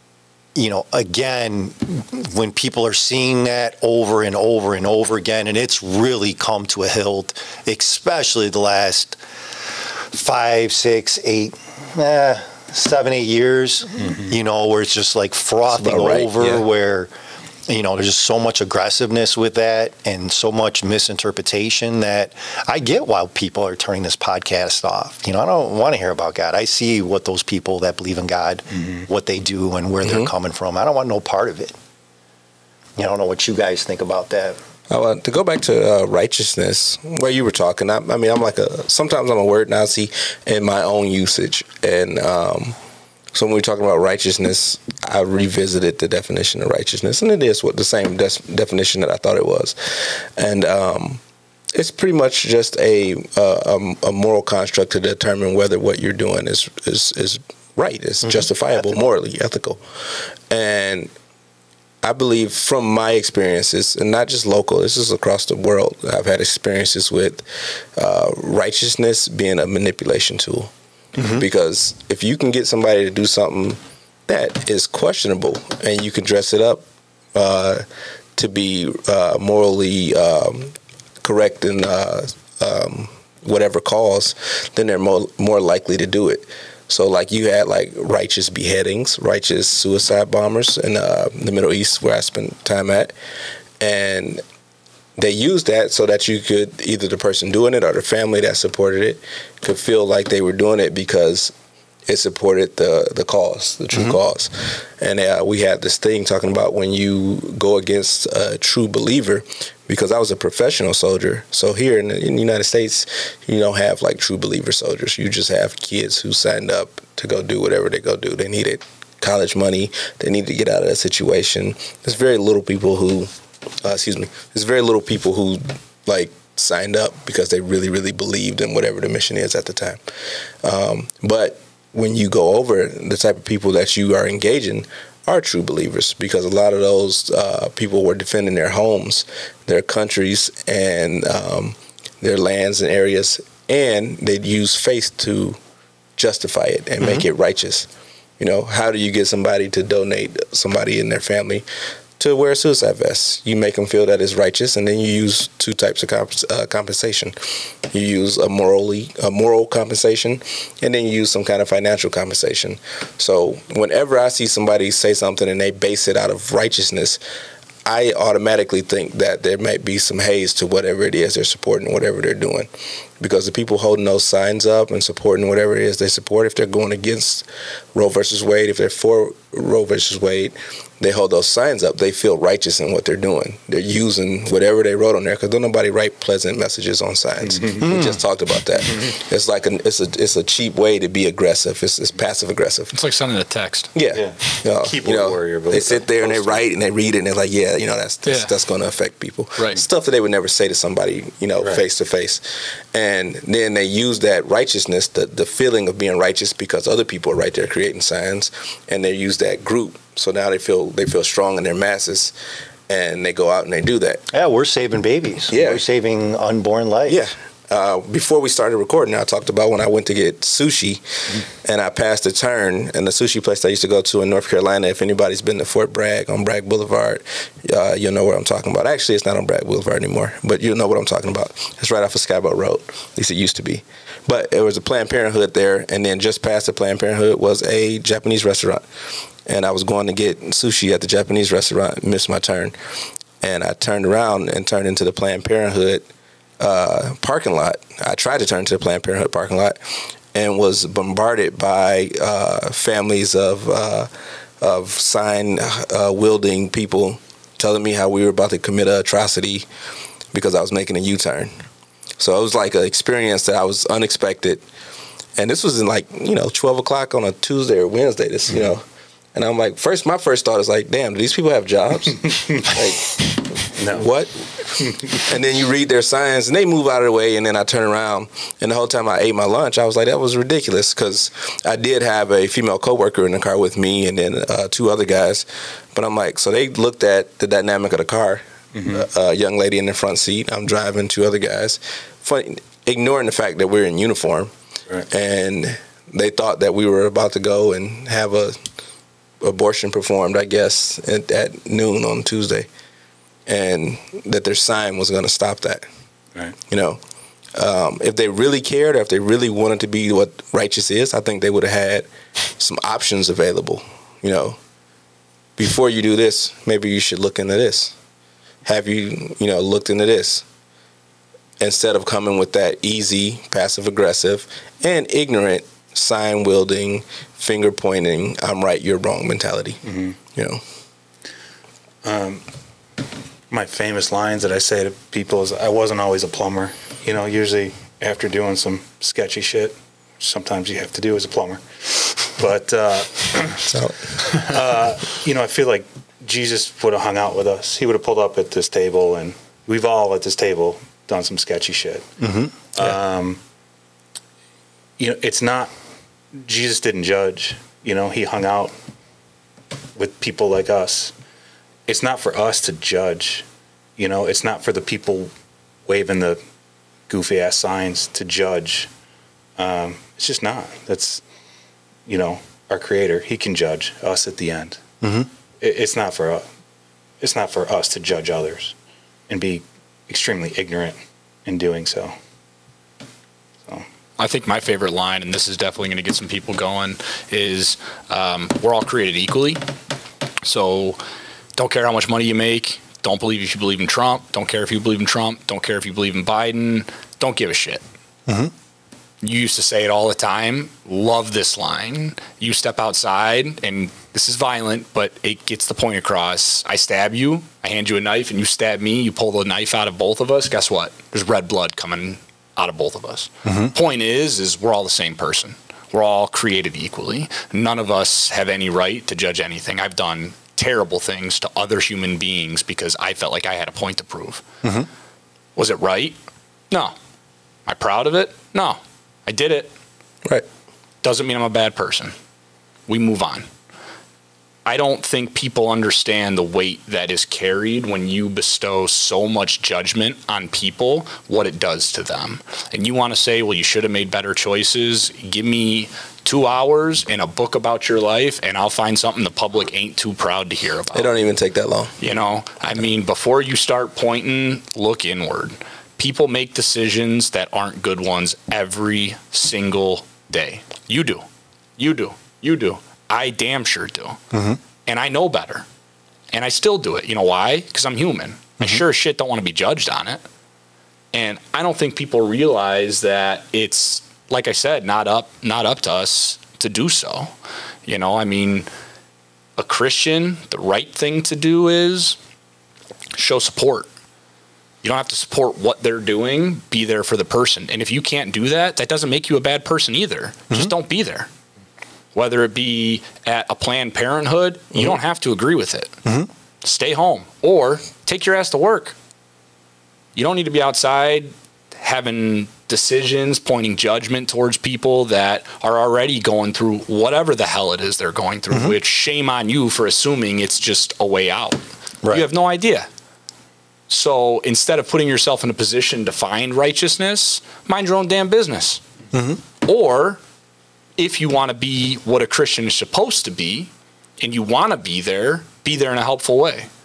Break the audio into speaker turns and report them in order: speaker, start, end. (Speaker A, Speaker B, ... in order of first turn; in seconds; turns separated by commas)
Speaker A: 0.5-9.2, Speaker A: 10.1-17.1, Speaker B: 15.7-16.6, Speaker A: 17.7-31.7, Speaker C: 28.8-29.0, Speaker B: 30.0-30.3, Speaker A: 33.0-34.6, Speaker B: 34.9-42.8, Speaker B: 43.3-51.2, Speaker B: 51.7-61.1, Speaker B: 62.0-67.4, Speaker B: 68.0-70.7, Speaker A: 71.2-71.4, Speaker B: 71.2-76.8, Speaker B: 77.3-77.8, Speaker B: 78.3-93.1, Speaker B: 93.8-94.4, Speaker B: 95.2-101.5, Speaker B: 102.0-123.3, Speaker B: 123.8-130.0, Speaker B: 130.6-145.6, Speaker B: 146.2-151.6, Speaker B: 152.2-157.3, Speaker B: 157.9-167.2, Speaker B: 167.8-172.7, Speaker B: 173.2-192.9, Speaker C: 187.4-187.8, Speaker A: 187.8-188.2, Speaker D: 192.9-193.9, Speaker B: 193.9-202.4, Speaker C: 194.1-196.6, Speaker D: 198.2-198.5, Speaker D: 199.6-199.8, Speaker B: 202.9-212.3, Speaker B: 212.9-214.2, Speaker A: 214.3-217.2, Speaker B: 215.5-215.8, Speaker B: 217.1-238.8, Speaker B: 239.4-242.7, Speaker B: 243.4-246.1, Speaker B: 246.6-249.8, Speaker B: 250.3-254.1, Speaker B: 254.6-259.7, Speaker B: 260.3-261.5, Speaker B: 262.2-264.6, Speaker B: 265.4-294.5, Speaker C: 273.8-274.1, Speaker C: 288.7-289.1, Speaker B: 295.1-298.6, Speaker B: 299.4-302.7, Speaker B: 303.5-305.8, Speaker B: 306.7-307.0, Speaker B: 307.6-314.6, Speaker B: 315.6-317.9, Speaker B: 318.6-320.4, Speaker B: 321.6-329.8, Speaker C: 329.8-330.1, Speaker B: 330.3-330.6, Speaker C: 332.0-332.4, Speaker C: 333.5-352.1, Speaker B: 343.6-344.6, Speaker A: 352.2-352.5, Speaker C: 352.7-353.4, Speaker C: 355.0-355.7, Speaker C: 356.3-358.7, Speaker C: 359.9-361.1, Speaker C: 361.9-363.4, Speaker C: 364.0-365.3, Speaker C: 365.9-366.4, Speaker C: 367.1-368.9, Speaker C: 369.6-371.2, Speaker C: 372.1-374.8, Speaker A: 375.0-375.3, Speaker C: 375.6-376.4, Speaker C: 377.2-378.7, Speaker C: 379.3-382.1, Speaker D: 384.2-389.6, Speaker D: 390.4-391.0, Speaker D: 391.6-397.8, Speaker D: 399.2-424.4, Speaker A: 413.4-413.7, Speaker A: 424.6-424.9, Speaker D: 425.6-426.2, Speaker D: 427.6-429.7, Speaker D: 431.0-432.1, Speaker D: 432.9-433.5, Speaker D: 434.6-451.2, Speaker B: 450.9-451.9, Speaker D: 452.0-461.2, Speaker D: 461.8-464.2, Speaker A: 464.3-464.6, Speaker D: 464.9-465.6, Speaker D: 466.3-470.2, Speaker D: 471.1-477.3, Speaker D: 477.9-478.7, Speaker D: 479.6-482.2, Speaker D: 483.1-483.9, Speaker D: 484.8-491.3, Speaker D: 492.1-495.9, Speaker D: 496.6-498.9, Speaker D: 500.1-512.9, Speaker A: 508.5-508.8, Speaker D: 513.9-518.8, Speaker A: 519.1-519.4, Speaker D: 519.6-520.2, Speaker D: 521.0-526.7